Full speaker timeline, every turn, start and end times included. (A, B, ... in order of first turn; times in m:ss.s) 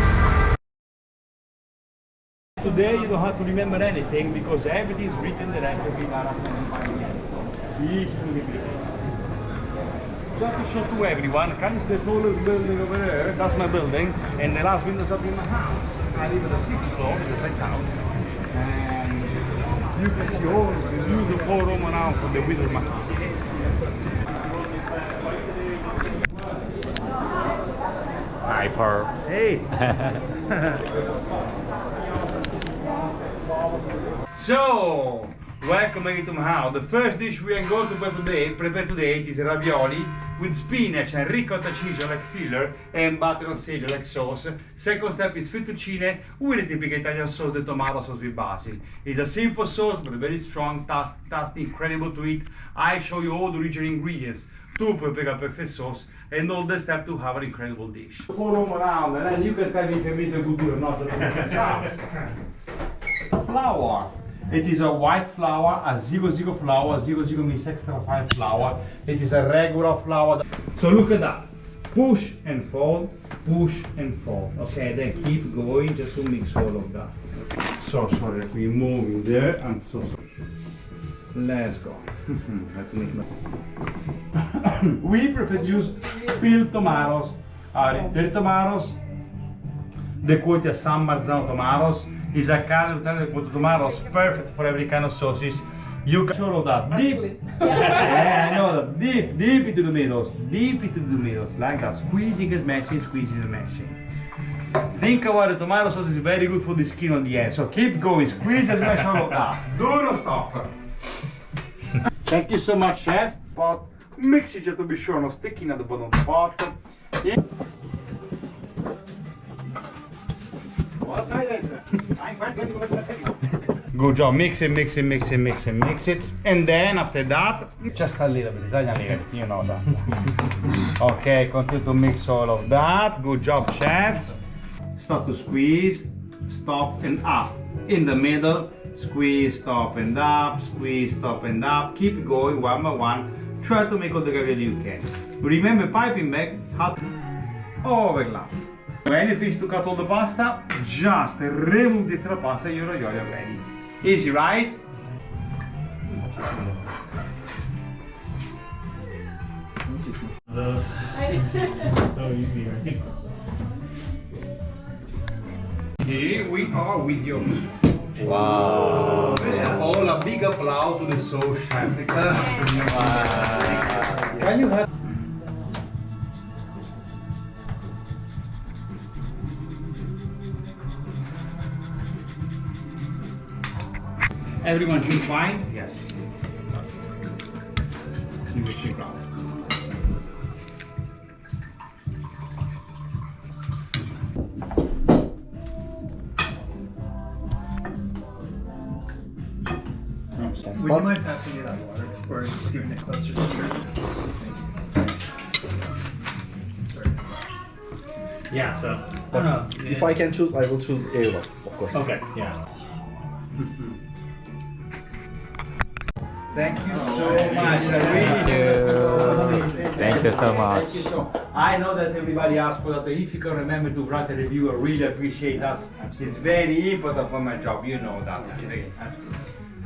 0:02.6-0:08.8 A
0:10.3-0:19.4 A
0:19.9-0:23.2 A
0:28.5-0:29.1 B
0:29.0-0:29.7 A
0:29.8-0:30.1 B
0:34.3-1:02.3 A
1:03.3-1:17.1 A
1:17.8-1:20.2 A
1:21.3-1:23.2 A
1:24.4-1:29.0 A
1:30.2-1:44.0 A
1:44.9-1:50.7 A
1:52.2-1:57.3 A
2:01.0-2:02.9 A
2:03.9-2:10.2 A
2:11.0-2:14.4 A
2:15.0-2:27.0 A
2:27.8-2:28.5 A
2:29.0-2:34.8 A
2:40.5-2:43.0 C
2:46.0-2:47.6 A
2:48.2-2:48.5 A
2:48.2-2:49.5 B
2:49.3-2:54.8 A
2:52.8-2:54.4 B
3:04.6-3:06.0 A
3:08.4-3:09.2 A
3:20.4-3:20.9 A
3:20.8-3:24.6 C
3:26.9-3:27.3 C
3:28.5-3:30.2 C
3:29.3-3:32.1 D
3:31.9-3:32.6 C
3:33.6-3:34.0 A
3:36.5-3:48.9 A
3:36.9-3:38.5 C
3:38.1-3:41.1 B
3:39.2-3:39.8 C
3:48.5-3:49.4 C